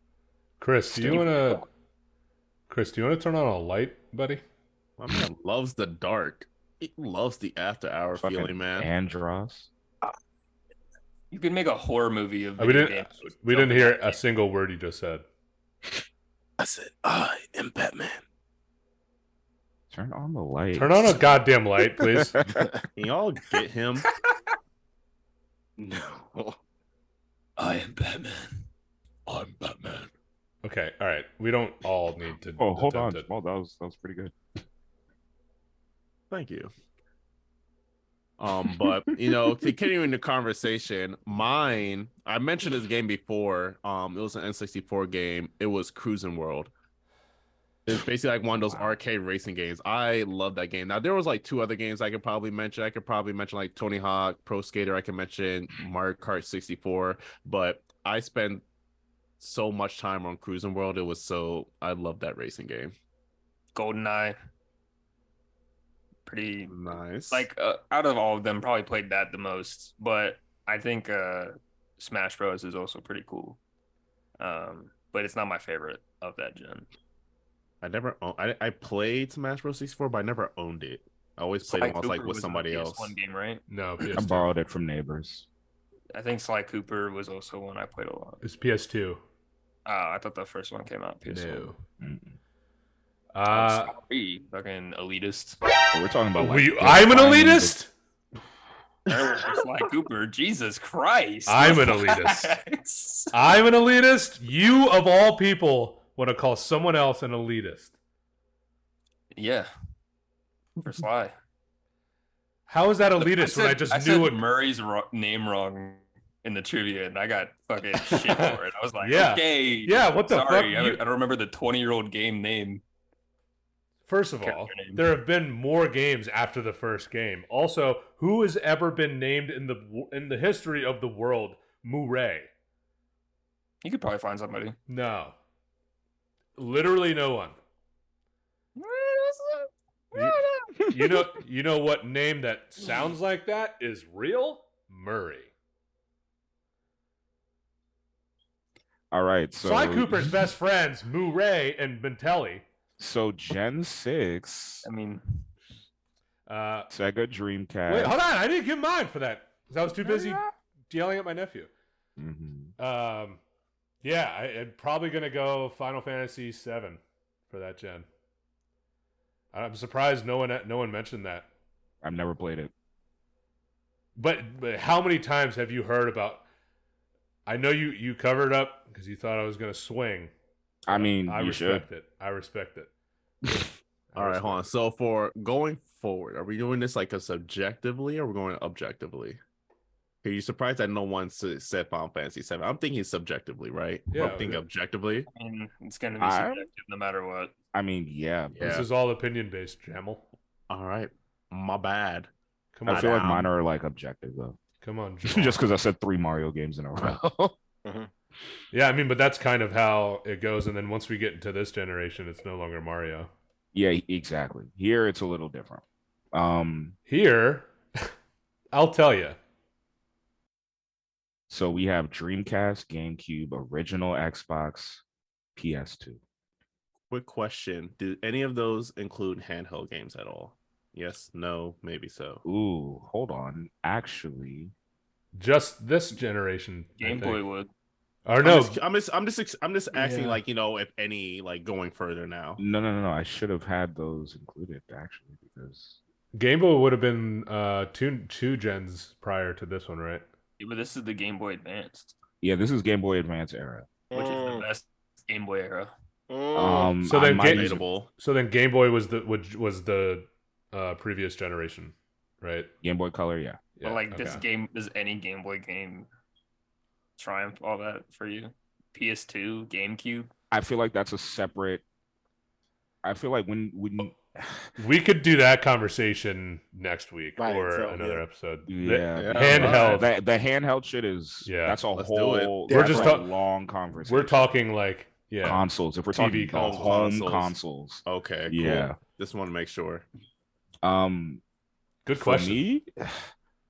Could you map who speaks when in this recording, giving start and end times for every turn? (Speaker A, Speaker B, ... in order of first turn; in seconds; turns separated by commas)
Speaker A: 0.6-1.7, Speaker B: 0.9-1.5, Speaker A: 2.7-4.4, Speaker C: 5.0-8.9, Speaker B: 8.2-9.7, Speaker D: 11.3-14.2, Speaker A: 12.6-15.2, Speaker E: 16.6-18.2, Speaker B: 19.9-21.2, Speaker A: 20.7-22.4, Speaker B: 22.0-22.7, Speaker C: 23.0-24.1, Speaker E: 25.8-26.6, Speaker D: 27.6-28.6, Speaker D: 29.3-30.1, Speaker A: 30.6-33.3, Speaker B: 32.6-34.3, Speaker C: 36.3-36.7, Speaker C: 38.4-46.7, Speaker C: 47.9-58.6, Speaker B: 48.6-48.9, Speaker C: 59.4-62.9, Speaker D: 63.8-64.4, Speaker D: 66.3-66.8, Speaker C: 66.7-67.5, Speaker D: 67.3-73.6, Speaker D: 74.4-76.9, Speaker C: 77.8-83.2, Speaker D: 81.6-83.6, Speaker A: 83.7-84.5, Speaker B: 84.2-85.5, Speaker D: 86.1-88.4, Speaker A: 88.4-89.2, Speaker D: 89.9-91.7, Speaker A: 91.3-91.8, Speaker B: 92.0-92.4, Speaker A: 93.3-93.9, Speaker D: 93.5-95.6, Speaker B: 95.9-97.8, Speaker A: 96.4-97.9, Speaker D: 99.1-103.3, Speaker A: 101.5-102.5, Speaker A: 103.3-107.9, Speaker D: 109.3-109.7, Speaker D: 110.8-111.3, Speaker A: 112.7-114.4, Speaker D: 113.2-122.8, Speaker A: 118.0-121.0, Speaker A: 124.1-132.5, Speaker D: 124.4-125.1, Speaker D: 133.8-134.8, Speaker A: 134.9-135.4, Speaker A: 136.6-137.6, Speaker D: 138.8-139.7, Speaker A: 140.1-145.5, Speaker B: 149.1-150.5, Speaker A: 149.6-152.7, Speaker B: 153.0-154.9, Speaker D: 154.8-155.4, Speaker A: 156.5-156.9, Speaker B: 156.9-158.2, Speaker A: 157.9-161.7, Speaker B: 160.0-160.5, Speaker B: 162.2-162.7, Speaker A: 162.8-163.4, Speaker A: 164.0-168.1, Speaker A: 169.5-171.5, Speaker B: 172.0-172.7, Speaker A: 174.2-176.4, Speaker A: 177.5-180.3, Speaker B: 180.9-181.9, Speaker A: 180.9-182.9, Speaker A: 184.1-184.7, Speaker C: 184.2-189.4, Speaker C: 190.2-195.3, Speaker A: 194.1-194.6, Speaker D: 195.3-197.5, Speaker B: 196.2-196.7, Speaker B: 197.7-198.8, Speaker C: 198.5-198.9, Speaker A: 198.6-200.3, Speaker C: 200.7-202.3, Speaker A: 202.7-203.2, Speaker C: 202.9-203.5, Speaker B: 202.9-204.6, Speaker A: 204.8-205.6, Speaker B: 205.2-207.6, Speaker A: 208.7-213.3, Speaker B: 213.7-216.9, Speaker A: 217.1-218.1, Speaker A: 218.7-219.4, Speaker B: 221.5-225.0, Speaker B: 225.6-226.2, Speaker C: 227.1-232.4, Speaker B: 232.4-234.7, Speaker A: 235.3-237.4, Speaker D: 237.0-237.7, Speaker A: 238.3-238.8, Speaker C: 238.4-242.6, Speaker A: 239.9-240.4, Speaker B: 242.6-246.0, Speaker A: 246.3-250.2, Speaker D: 250.6-252.1, Speaker B: 252.4-253.9, Speaker E: 254.1-254.6, Speaker D: 254.1-255.9, Speaker E: 256.3-256.9, Speaker B: 256.5-257.8, Speaker A: 257.1-262.7, Speaker C: 257.4-258.1, Speaker B: 262.8-263.6, Speaker A: 263.8-264.4, Speaker D: 263.8-266.1, Speaker D: 267.2-270.3, Speaker B: 270.5-271.8, Speaker B: 273.0-274.7, Speaker A: 274.8-280.1, Speaker E: 277.4-278.2, Speaker B: 278.7-284.5, Speaker C: 279.1-280.1, Speaker A: 281.4-281.8, Speaker C: 281.9-282.7, Speaker A: 282.7-283.3, Speaker E: 282.7-283.1, Speaker A: 284.1-286.9, Speaker B: 285.4-289.0, Speaker C: 286.6-290.1, Speaker B: 290.8-291.4, Speaker A: 292.1-292.6, Speaker B: 292.1-293.3